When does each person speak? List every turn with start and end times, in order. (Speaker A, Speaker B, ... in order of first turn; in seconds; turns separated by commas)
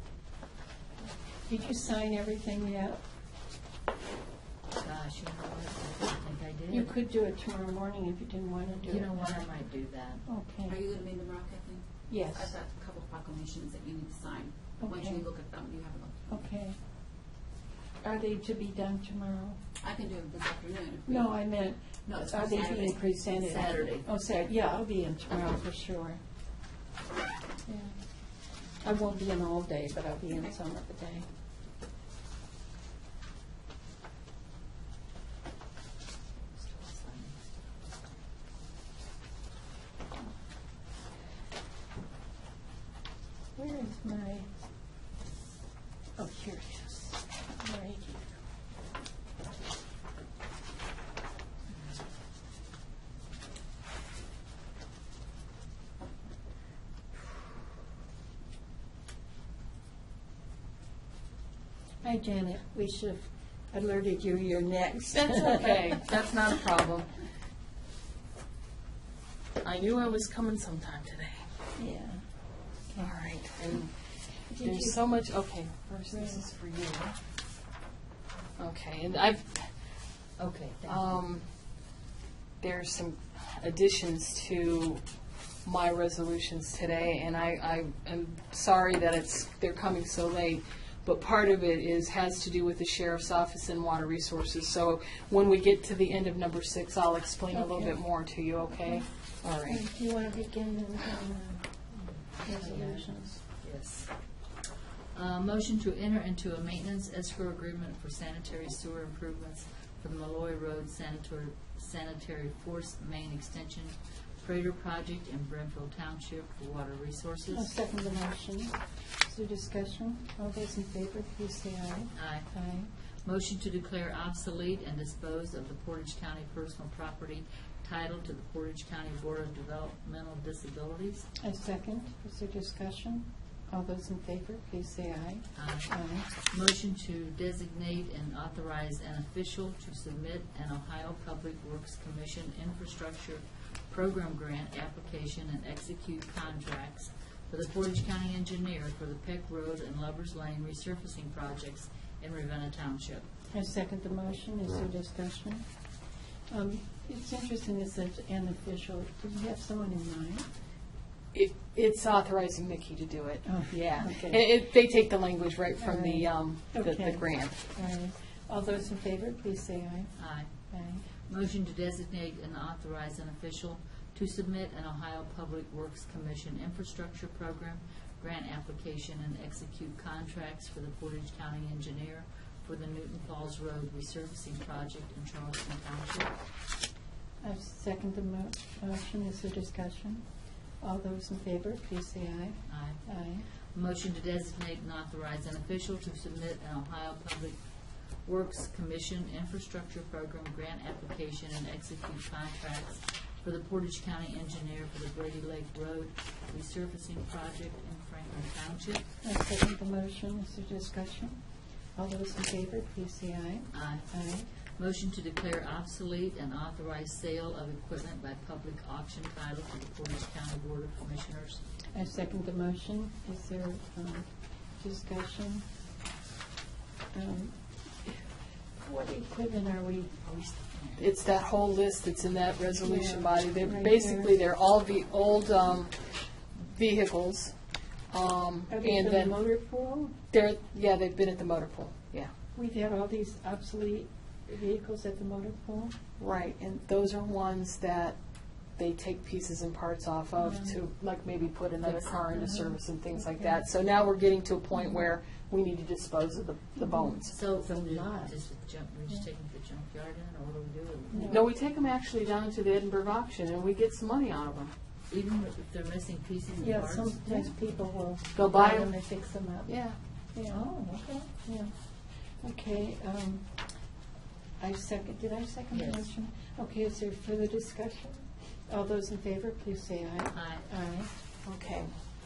Speaker A: 1.4-3.0, Speaker B: 4.8-6.9, Speaker A: 6.7-9.4, Speaker B: 8.8-10.3, Speaker A: 10.2-10.8, Speaker C: 10.7-16.4, Speaker A: 12.1-12.5, Speaker A: 14.8-15.2, Speaker A: 16.3-16.8, Speaker A: 18.0-19.6, Speaker C: 19.8-21.3, Speaker A: 21.1-26.2, Speaker C: 21.9-23.9, Speaker B: 23.5-24.0, Speaker A: 28.8-31.2, Speaker B: 36.6-37.6, Speaker A: 43.5-44.5, Speaker A: 46.2-48.3, Speaker A: 62.0-66.0, Speaker D: 65.1-67.1, Speaker D: 69.6-71.4, Speaker A: 71.8-72.3, Speaker A: 72.8-73.3, Speaker D: 73.0-73.9, Speaker A: 74.5-75.0, Speaker D: 74.5-77.2, Speaker A: 76.1-76.4, Speaker D: 78.6-79.7, Speaker B: 80.4-81.1, Speaker D: 80.8-81.5, Speaker D: 82.6-85.0, Speaker D: 85.6-99.8, Speaker A: 97.5-98.0, Speaker A: 99.7-101.7, Speaker B: 101.9-104.2, Speaker A: 102.4-103.4, Speaker B: 105.1-117.7, Speaker A: 117.5-122.9, Speaker B: 122.1-122.5, Speaker B: 123.2-131.3, Speaker A: 131.4-136.3, Speaker B: 135.5-153.3, Speaker A: 153.5-155.7, Speaker A: 156.5-160.5, Speaker D: 161.3-167.6, Speaker A: 163.4-164.4, Speaker A: 165.8-171.0, Speaker B: 170.2-186.4, Speaker A: 187.4-193.4, Speaker B: 192.7-209.0, Speaker A: 209.2-211.4, Speaker A: 211.9-214.5, Speaker B: 213.7-221.6, Speaker A: 221.9-225.7, Speaker A: 227.1-230.3, Speaker B: 230.2-231.0, Speaker D: 231.0-237.5, Speaker A: 232.8-234.4, Speaker D: 238.1-239.4, Speaker A: 238.7-240.1, Speaker D: 240.3-242.3, Speaker A: 242.5-245.9, Speaker D: 246.2-248.2, Speaker D: 248.8-257.4, Speaker B: 251.8-252.2, Speaker A: 252.3-253.6, Speaker A: 256.8-258.3, Speaker B: 257.2-261.4, Speaker A: 261.1-261.4, Speaker D: 261.3-264.7, Speaker B: 265.1-267.8, Speaker A: 266.6-270.6, Speaker D: 268.3-268.9, Speaker D: 269.7-270.0, Speaker B: 270.5-271.3, Speaker A: 271.4-273.7, Speaker A: 274.6-281.1, Speaker B: 275.7-276.1, Speaker B: 280.3-280.7, Speaker D: 281.4-281.9